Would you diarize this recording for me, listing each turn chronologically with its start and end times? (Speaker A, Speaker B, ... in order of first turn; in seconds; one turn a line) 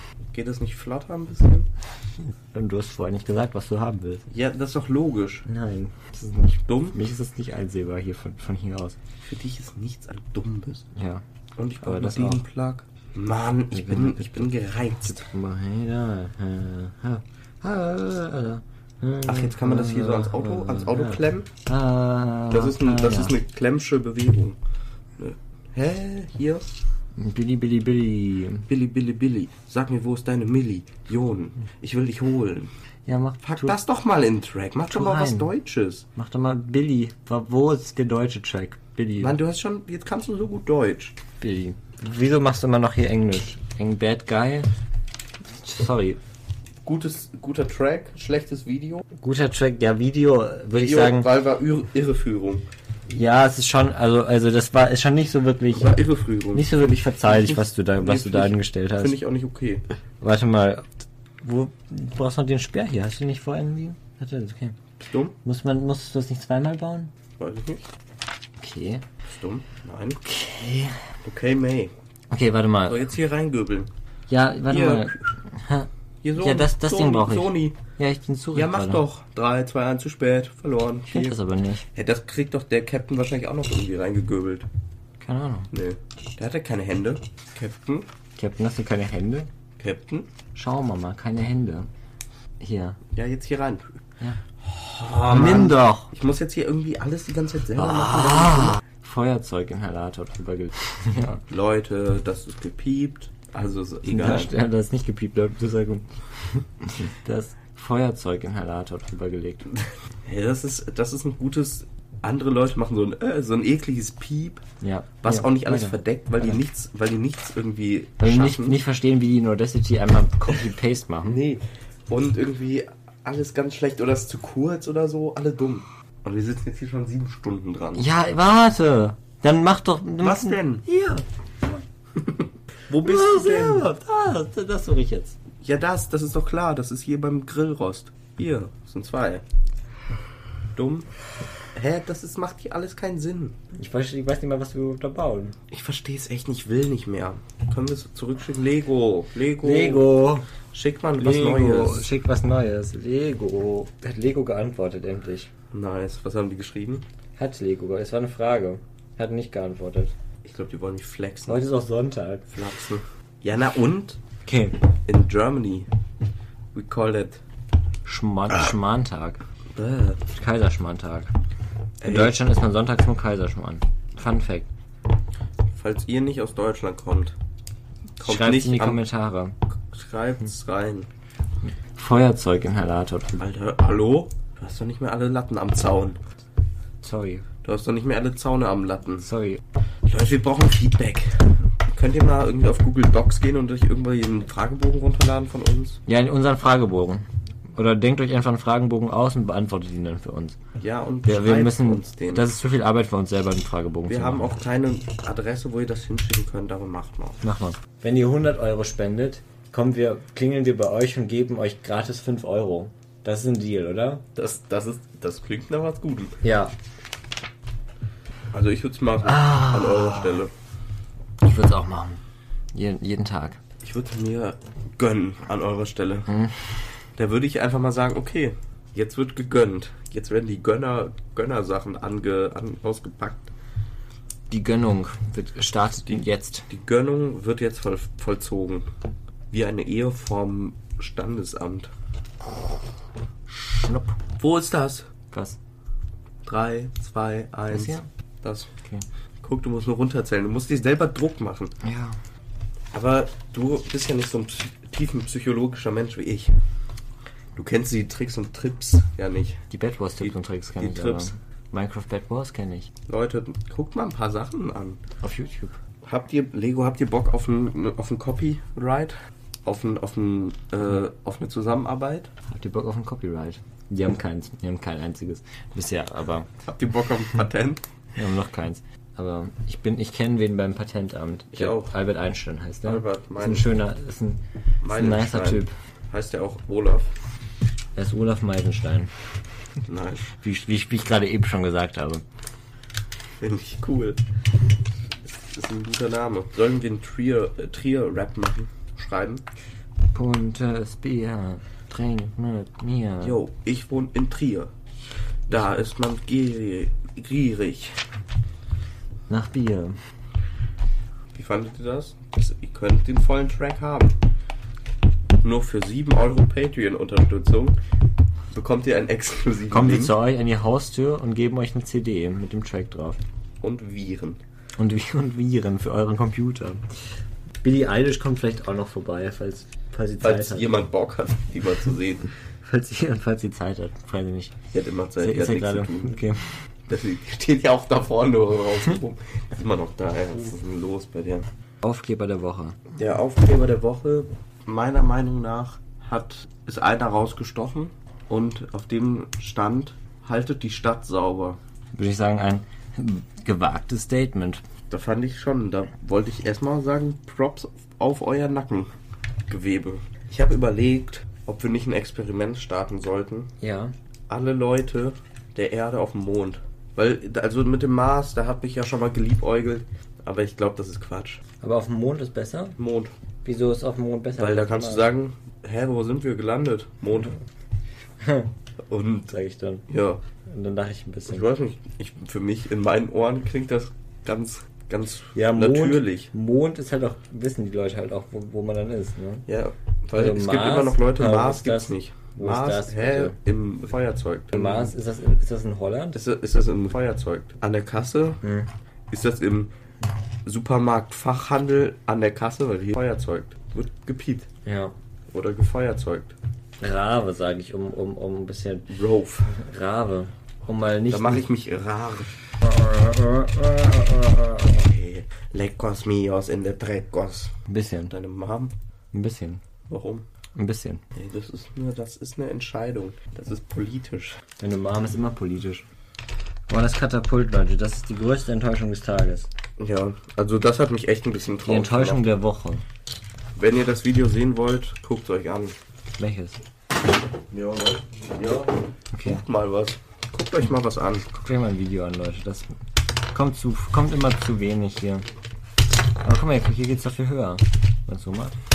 Speaker A: 0.3-1.7
Speaker B: 2.5-4.2
Speaker A: 4.3-5.5
Speaker B: 5.5-9.0
Speaker A: 6.6-7.0
Speaker A: 9.2-10.9
Speaker B: 10.9-11.2
Speaker A: 11.6-15.2
Speaker B: 11.8-12.4
Speaker B: 13.7-14.5
Speaker B: 15.0-23.3
Speaker A: 19.2-21.5
Speaker A: 22.5-24.6
Speaker A: 25.2-26.7
Speaker B: 27.1-28.7
Speaker A: 28.7-32.7
Speaker B: 33.0-33.8
Speaker A: 33.4-36.0
Speaker B: 34.9-35.5
Speaker B: 36.1-39.3
Speaker A: 39.2-41.1
Speaker B: 41.4-44.7
Speaker B: 45.5-46.2
Speaker A: 46.8-49.0
Speaker B: 49.2-51.3
Speaker A: 50.7-52.7
Speaker B: 53.1-55.9
Speaker A: 55.7-59.8
Speaker B: 56.5-59.1
Speaker B: 60.2-60.9
Speaker B: 61.4-64.8
Speaker A: 65.1-65.3
Speaker B: 65.4-67.1
Speaker A: 67.4-67.8
Speaker B: 68.6-69.0
Speaker A: 69.2-70.2
Speaker B: 70.2-71.1
Speaker A: 71.2-71.9
Speaker B: 72.3-73.0
Speaker A: 72.8-73.9
Speaker B: 74.3-79.0
Speaker A: 74.7-75.3
Speaker A: 76.2-77.8
Speaker A: 78.5-84.7
Speaker B: 81.1-81.8
Speaker B: 85.2-85.7
Speaker A: 85.7-88.1
Speaker B: 88.4-89.5
Speaker A: 89.8-90.3
Speaker B: 90.5-91.9
Speaker B: 92.6-93.0
Speaker A: 93.1-94.0
Speaker A: 94.6-98.8
Speaker B: 95.3-96.1
Speaker B: 97.8-101.4
Speaker A: 101.5-104.5
Speaker B: 104.0-109.7
Speaker A: 110.2-114.6
Speaker B: 114.8-116.6
Speaker A: 115.2-118.8
Speaker B: 118.2-121.4
Speaker A: 121.2-128.1
Speaker B: 128.0-131.2
Speaker A: 130.2-130.8
Speaker A: 132.1-133.9
Speaker B: 133.0-135.4
Speaker A: 135.6-139.4
Speaker A: 140.7-141.1
Speaker A: 141.7-143.6
Speaker B: 143.7-145.6
Speaker A: 145.7-150.1
Speaker B: 149.6-150.5
Speaker A: 150.7-152.1
Speaker B: 151.2-155.5
Speaker A: 155.7-157.0
Speaker B: 157.4-160.1
Speaker A: 160.4-161.6
Speaker B: 161.5-162.5
Speaker A: 162.5-164.2
Speaker B: 164.4-164.8
Speaker A: 165.1-165.9
Speaker A: 166.7-167.4
Speaker B: 168.1-169.4
Speaker A: 169.7-170.2
Speaker B: 170.3-171.3
Speaker A: 172.0-172.3
Speaker B: 172.0-174.7
Speaker A: 175.7-177.3
Speaker A: 178.2-179.0
Speaker B: 178.2-179.6
Speaker A: 179.8-181.1
Speaker B: 181.6-183.4
Speaker A: 183.4-186.2
Speaker B: 187.0-187.5
Speaker A: 187.6-189.2
Speaker B: 189.2-189.6
Speaker A: 190.0-196.0
Speaker B: 196.1-200.6
Speaker A: 200.8-202.5
Speaker B: 201.2-204.5
Speaker A: 204.1-207.4
Speaker B: 207.4-214.2
Speaker A: 214.3-216.4
Speaker B: 216.4-216.7
Speaker A: 218.5-220.5
Speaker B: 219.2-220.4
Speaker B: 221.4-222.2
Speaker B: 222.7-223.6
Speaker A: 223.8-226.3
Speaker B: 226.3-226.7
Speaker A: 227.2-233.5
Speaker B: 234.5-236.7
Speaker A: 236.7-238.9
Speaker A: 239.5-241.9
Speaker B: 243.5-244.2
Speaker A: 244.4-245.1
Speaker B: 245.3-245.6
Speaker A: 246.4-248.7
Speaker B: 247.7-248.1
Speaker A: 249.4-251.7
Speaker B: 251.8-252.2
Speaker A: 252.9-256.6
Speaker A: 257.5-259.6
Speaker B: 259.7-262.9
Speaker A: 260.2-261.3
Speaker A: 263.1-265.0
Speaker B: 265.2-265.8
Speaker A: 266.0-269.1
Speaker A: 269.6-272.3
Speaker B: 272.5-276.5
Speaker A: 276.6-277.8
Speaker B: 278.1-285.7
Speaker A: 281.5-281.9
Speaker A: 282.8-283.7
Speaker A: 284.8-287.1
Speaker B: 287.9-289.1
Speaker A: 289.8-290.3
Speaker B: 290.4-292.2
Speaker A: 293.4-294.2
Speaker A: 295.3-299.4
Speaker B: 300.1-303.4
Speaker A: 303.2-304.7
Speaker A: 305.5-308.1
Speaker B: 309.3-310.0
Speaker A: 311.3-314.2
Speaker A: 315.4-317.8
Speaker A: 318.5-320.1
Speaker B: 319.7-323.2
Speaker A: 323.6-324.4
Speaker B: 324.8-326.9
Speaker B: 327.6-330.7
Speaker A: 330.2-332.3
Speaker B: 332.6-334.5
Speaker A: 334.7-336.2
Speaker B: 335.2-336.6
Speaker A: 336.9-341.5
Speaker B: 341.8-342.8
Speaker A: 342.9-351.6
Speaker B: 351.9-354.6
Speaker A: 354.9-358.9
Speaker A: 359.5-363.5
Speaker B: 363.6-363.9
Speaker A: 364.3-371.4
Speaker B: 371.6-372.8
Speaker A: 372.8-373.1
Speaker B: 373.4-375.1
Speaker A: 374.4-377.4
Speaker B: 378.2-378.5
Speaker A: 378.9-379.3
Speaker B: 379.3-379.9
Speaker A: 379.9-380.2
Speaker B: 380.5-381.4
Speaker A: 381.2-386.3
Speaker B: 385.3-389.4
Speaker A: 389.5-394.9
Speaker B: 390.1-393.4
Speaker B: 394.5-396.2
Speaker A: 396.1-398.4
Speaker B: 398.4-398.7
Speaker A: 399.1-399.7
Speaker A: 400.4-404.5
Speaker B: 404.6-404.9
Speaker A: 405.3-406.3
Speaker B: 406.8-408.9
Speaker A: 408.9-409.5
Speaker B: 409.4-411.4
Speaker A: 411.1-412.3
Speaker B: 412.6-414.9
Speaker A: 414.8-417.6
Speaker B: 417.7-418.1
Speaker A: 418.1-418.7
Speaker B: 419.1-419.6
Speaker A: 419.9-420.2
Speaker B: 420.6-421.0
Speaker A: 421.1-424.4
Speaker B: 424.6-425.9
Speaker B: 426.7-429.5
Speaker A: 429.8-432.2
Speaker B: 431.6-432.8
Speaker A: 433.6-435.8
Speaker B: 436.2-436.6
Speaker A: 437.5-441.3
Speaker B: 439.1-439.4
Speaker B: 441.3-445.2
Speaker B: 446.2-448.6